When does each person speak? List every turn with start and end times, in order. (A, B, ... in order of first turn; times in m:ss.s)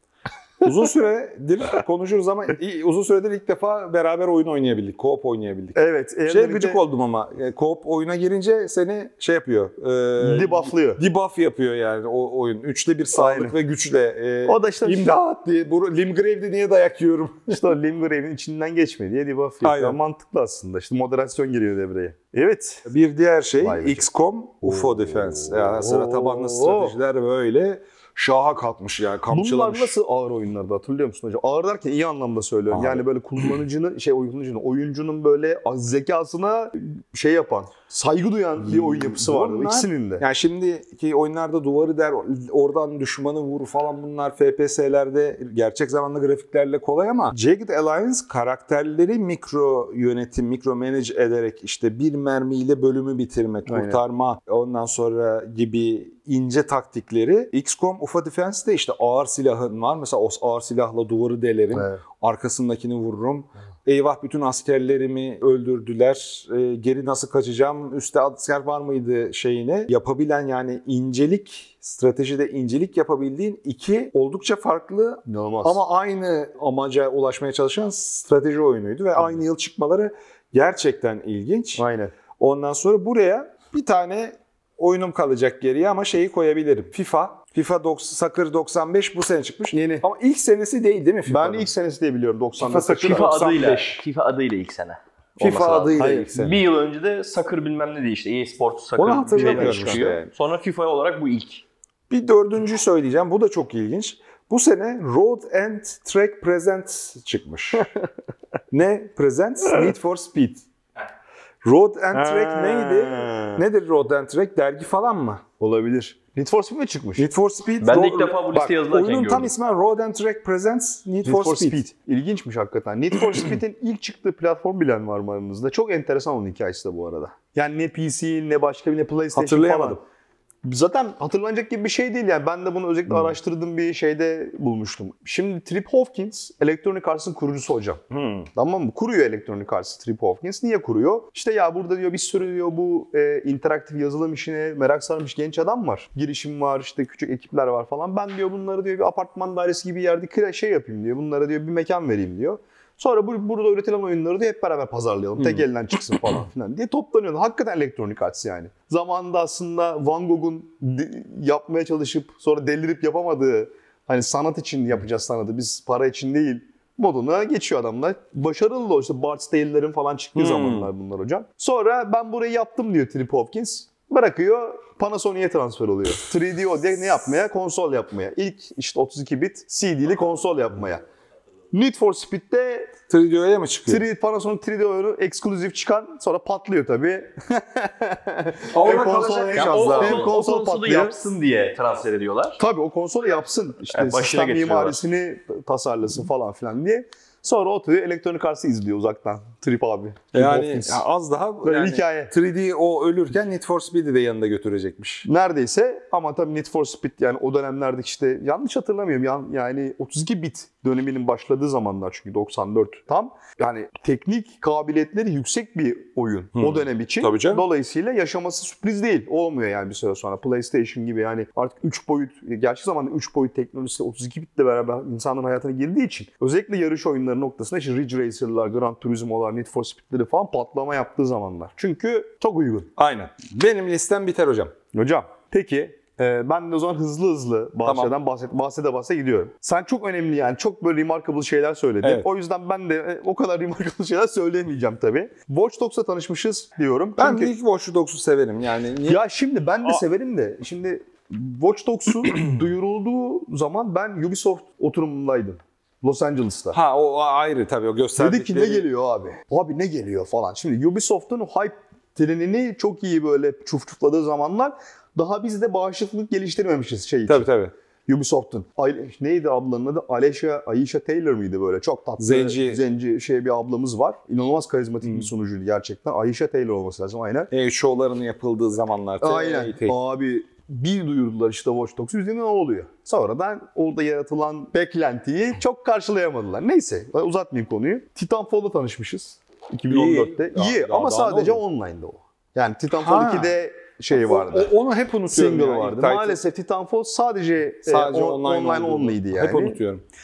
0:00.6-0:17.6 A
0:05.8-0:06.8 B
0:10.2-0:11.0 B
0:13.1-0:13.5 B
0:14.5-0:15.2 B
0:17.5-0:22.9 B
0:19.6-0:20.0 A
0:22.9-0:30.0 A
0:23.6-0:24.1 B
0:24.6-0:27.0 B
0:29.3-0:40.2 B
0:32.7-0:33.0 A
0:38.6-1:21.8 A
0:53.6-0:54.0 B
1:01.7-1:02.0 B
1:15.2-1:15.8 B
1:21.8-1:22.1 B
1:22.4-1:31.7 A
1:29.7-1:30.0 B
1:31.3-1:33.4 B
1:32.6-1:34.0 A
1:33.0-1:41.6 C
1:35.4-1:36.6 A
1:36.0-1:36.3 B
1:39.0-1:40.3 A
1:39.3-1:40.1 B
1:42.1-1:47.9 A
1:48.7-1:50.6 A
1:51.6-1:55.4 A
1:52.1-1:53.6 B
1:55.6-1:57.3 B
1:57.2-2:01.8 A
1:57.8-1:59.5 C
2:01.2-2:10.0 B
2:09.3-2:10.0 A
2:10.6-2:18.0 B
2:18.1-2:18.5 A
2:18.6-3:01.0 B
2:35.4-2:35.6 A
2:50.4-2:50.9 A
3:01.7-3:03.0 B
3:03.1-3:04.0 A
3:03.9-3:11.2 B
3:08.7-3:10.4 A
3:09.5-3:12.6 C
3:12.6-3:21.0 B
3:13.9-3:15.0 C
3:20.3-3:25.3 A
3:21.6-3:22.3 B
3:25.2-3:52.9 B
3:36.6-3:37.6 A
3:53.0-3:54.7 A
3:54.9-4:07.5 B
3:57.8-3:58.1 A
4:02.0-4:02.3 A
4:07.2-4:09.2 A
4:09.0-4:16.8 B
4:12.2-4:12.6 A
4:16.7-4:18.8 A
4:18.2-4:27.5 B
4:27.3-4:27.7 A
4:28.1-4:37.5 B
4:32.2-4:32.8 A
4:37.5-4:40.0 A
4:39.2-4:54.7 B
4:49.9-4:51.6 A
4:52.9-4:53.6 A
4:54.1-4:56.4 A
4:55.3-4:59.8 B
4:57.8-5:00.0 A